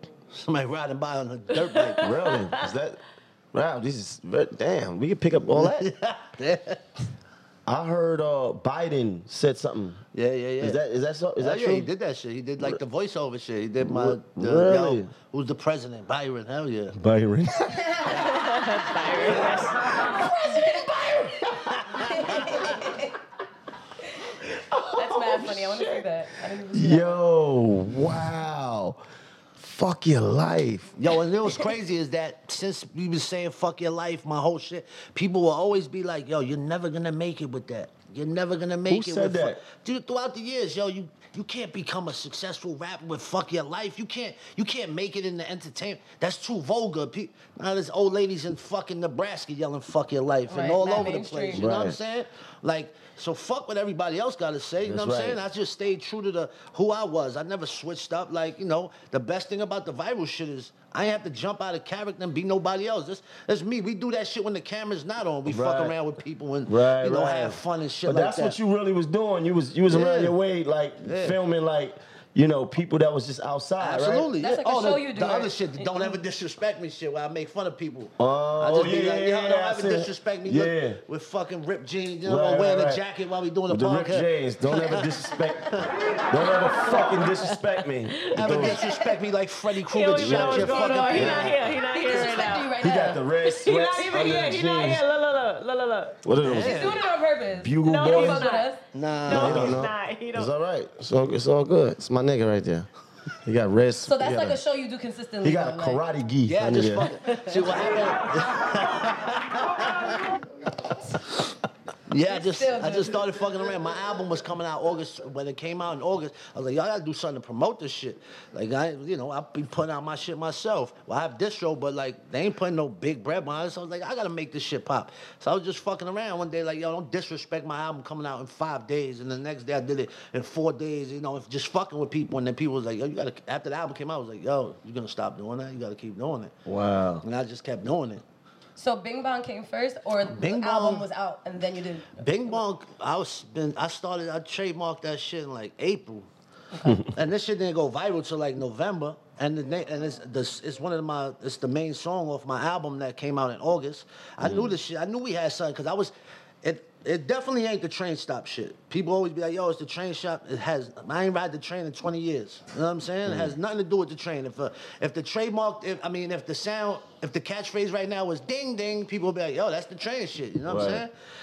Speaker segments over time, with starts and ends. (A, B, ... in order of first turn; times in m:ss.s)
0:00.3-0:02.3 A
0:01.6-0:02.7 B
0:02.0-0:03.0 C
0:03.5-0:05.9 C
0:05.5-0:06.8 A
0:07.6-0:10.0 C
0:10.1-0:10.8 A
0:10.6-0:11.9 C
0:11.4-0:17.0 A
0:13.8-0:15.1 C
0:16.9-0:18.1 C
0:17.8-0:18.2 D
0:18.1-0:19.8 B
0:18.1-0:18.4 A
0:19.2-0:19.7 A
0:19.3-0:22.8 C
0:20.2-0:20.9 D
0:21.8-0:22.8 A
0:22.1-0:23.1 D
0:24.3-0:29.0 C
0:24.9-0:27.2 D
0:29.6-0:31.0 C
0:31.0-1:08.6 A
0:38.9-0:39.6 C
0:50.5-0:51.7 D
0:51.5-0:52.0 C
0:54.8-0:55.4 C
1:05.4-1:05.9 C
1:06.6-1:14.3 C
1:09.9-1:10.3 A
1:11.0-1:11.4 A
1:13.8-1:25.9 A
1:14.4-1:16.1 D
1:18.2-1:21.0 C
1:22.2-1:23.0 C
1:23.7-1:28.9 C
1:26.8-1:28.7 B
1:28.3-1:31.6 A
1:28.5-1:29.2 D
1:29.9-1:32.8 B
1:30.1-1:31.6 C
1:30.8-1:33.2 D
1:32.8-1:35.0 C
1:33.4-1:36.2 B
1:33.9-1:34.9 D
1:36.2-1:37.0 C
1:36.4-1:37.0 A
1:36.4-1:38.8 D
1:37.5-1:38.5 C
1:37.8-1:40.5 B
1:38.9-1:39.8 A
1:39.3-1:42.9 C
1:43.4-1:44.6 C
1:44.0-1:46.0 D
1:45.4-1:47.1 C
1:46.4-1:50.4 A
1:47.2-1:48.1 B
1:52.1-2:16.5 A
1:52.2-1:53.2 D
2:16.6-2:17.2 C
2:17.2-2:18.2 A
2:18.8-2:22.6 D
2:20.3-2:21.0 A
2:22.2-2:26.3 A
2:26.7-2:27.1 D
2:27.0-2:51.1 A
2:34.4-2:34.8 C
2:43.2-2:43.5 C
2:50.6-2:51.0 C